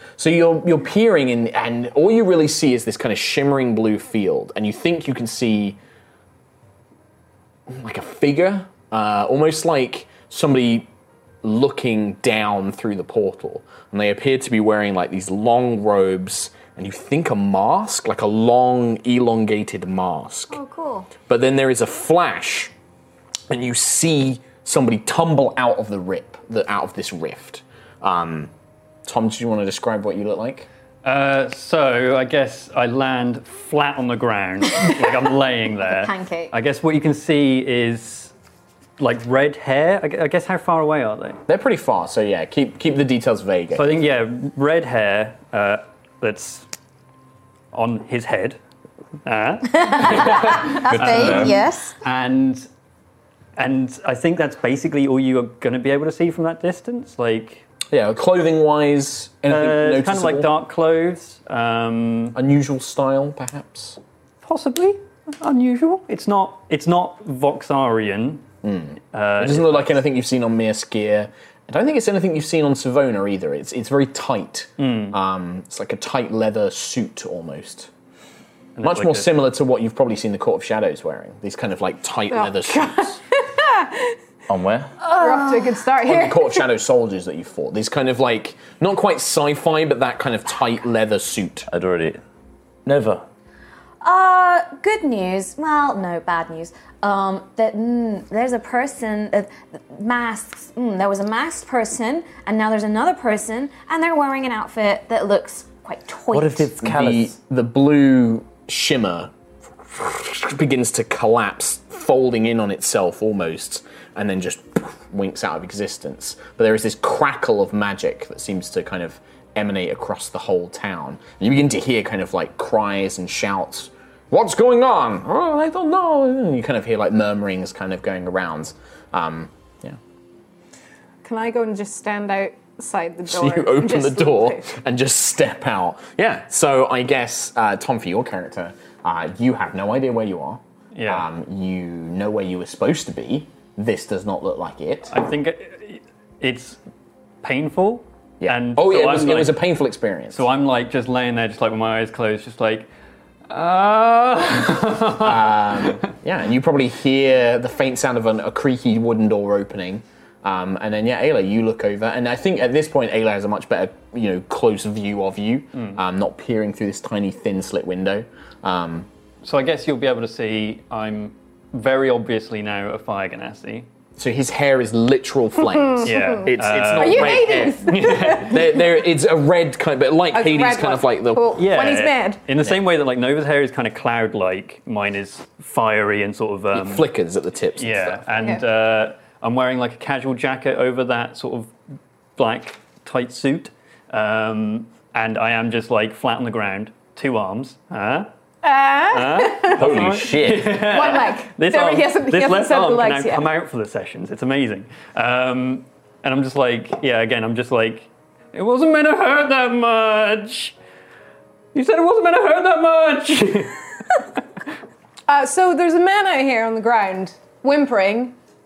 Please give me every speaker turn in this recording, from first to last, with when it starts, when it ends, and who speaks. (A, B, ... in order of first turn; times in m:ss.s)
0:00.2-0:05.8 A
0:07.7-0:10.9 A
0:11.4-0:20.6 A
0:20.5-0:21.1 B
0:21.3-0:22.7 A
0:23.5-0:28.5 A
0:29.0-0:30.7 A
0:31.0-0:38.3 C
0:35.8-0:36.5 B
0:39.0-0:41.4 C
0:41.5-0:43.9 A
0:43.7-0:46.7 C
0:47.7-0:48.6 C
0:49.2-0:52.7 C
0:49.7-0:52.0 B
0:50.9-0:51.6 D
0:53.6-0:57.6 C
0:57.9-1:00.5 A
0:59.5-1:02.4 C
1:02.3-1:04.0 A
1:04.4-1:08.4 C
1:08.6-1:17.9 A
1:09.1-1:10.0 C
1:14.8-1:15.2 C
1:18.8-1:19.4 C
1:18.8-1:23.2 A
1:22.3-1:24.2 E
1:24.5-1:24.9 D
1:25.1-1:25.6 B
1:25.1-1:26.6 E
1:26.0-1:31.7 A
1:31.7-1:32.2 D
1:32.8-1:33.2 D
1:34.0-1:46.7 B
1:46.3-1:47.3 D
1:46.8-1:49.3 A
1:49.8-2:10.0 A
2:11.2-2:14.8 E
2:13.3-2:25.1 A
2:20.9-2:21.3 C
2:25.1-2:26.8 C
2:27.4-2:29.6 C
2:28.4-2:30.4 A
2:30.3-2:32.9 C
2:33.5-2:36.0 C
2:35.2-2:49.1 A
2:49.4-2:53.9 C
2:54.2-3:01.6 A
2:55.7-2:58.8 E
2:56.0-2:58.8 C
3:00.3-3:02.4 E
3:01.6-3:07.1 C
3:06.7-3:08.3 A
3:07.8-3:11.7 C
3:12.4-3:18.3 C
3:18.6-3:19.9 E
3:19.1-3:30.7 C
3:19.7-3:21.0 D
3:20.8-3:23.5 E
3:31.7-3:33.8 C
3:35.3-3:38.4 E